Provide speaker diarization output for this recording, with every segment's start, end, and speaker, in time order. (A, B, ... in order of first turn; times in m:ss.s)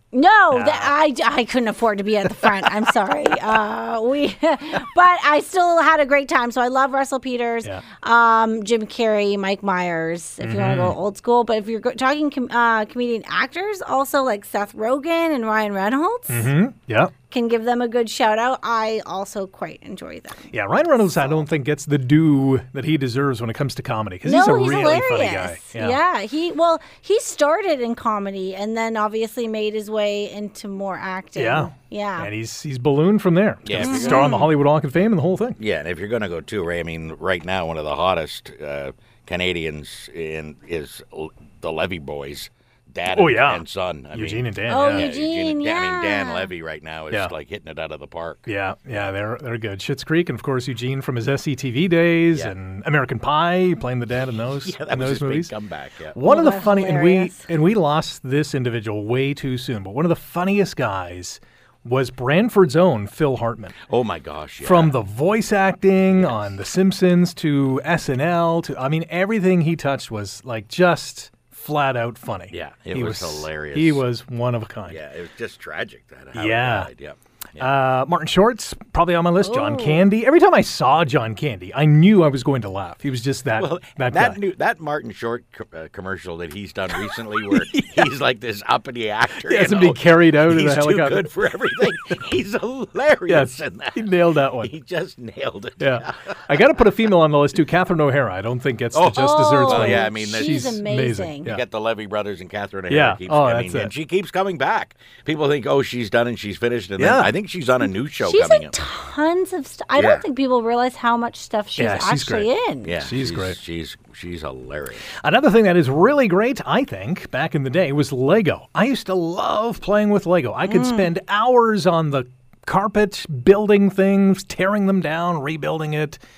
0:00.1-0:16.5 A
0:00.5-0:00.9 B
0:10.4-0:11.0 B
0:16.3-0:17.2 B
0:17.2-0:20.5 A
0:20.5-0:26.0 B
0:24.2-0:32.3 A
0:31.4-0:35.6 B
0:33.6-0:34.3 C
0:33.8-0:34.5 A
0:35.6-0:49.1 C
0:43.1-0:45.1 B
0:44.7-0:46.5 A
0:48.5-0:55.5 B
0:54.6-0:56.2 C
0:56.2-1:03.8 B
0:56.2-0:57.4 A
1:03.9-1:05.0 C
1:04.6-1:15.0 B
1:06.1-1:06.5 C
1:12.5-1:14.0 C
1:14.9-1:17.8 C
1:16.4-1:16.9 B
1:17.6-1:24.4 B
1:19.4-1:20.0 A
1:23.6-1:36.8 C
1:27.5-1:27.9 B
1:29.4-1:31.3 B
1:33.3-1:34.7 B
1:35.8-1:41.6 B
1:38.9-1:40.6 C
1:39.2-1:41.5 A
1:41.5-1:48.8 C
1:42.9-1:43.9 B
1:47.0-1:47.3 B
1:48.1-1:53.0 A
1:50.0-1:50.2 C
1:51.8-1:53.6 B
1:52.8-1:55.1 C
1:55.1-2:06.2 B
2:00.6-2:01.1 A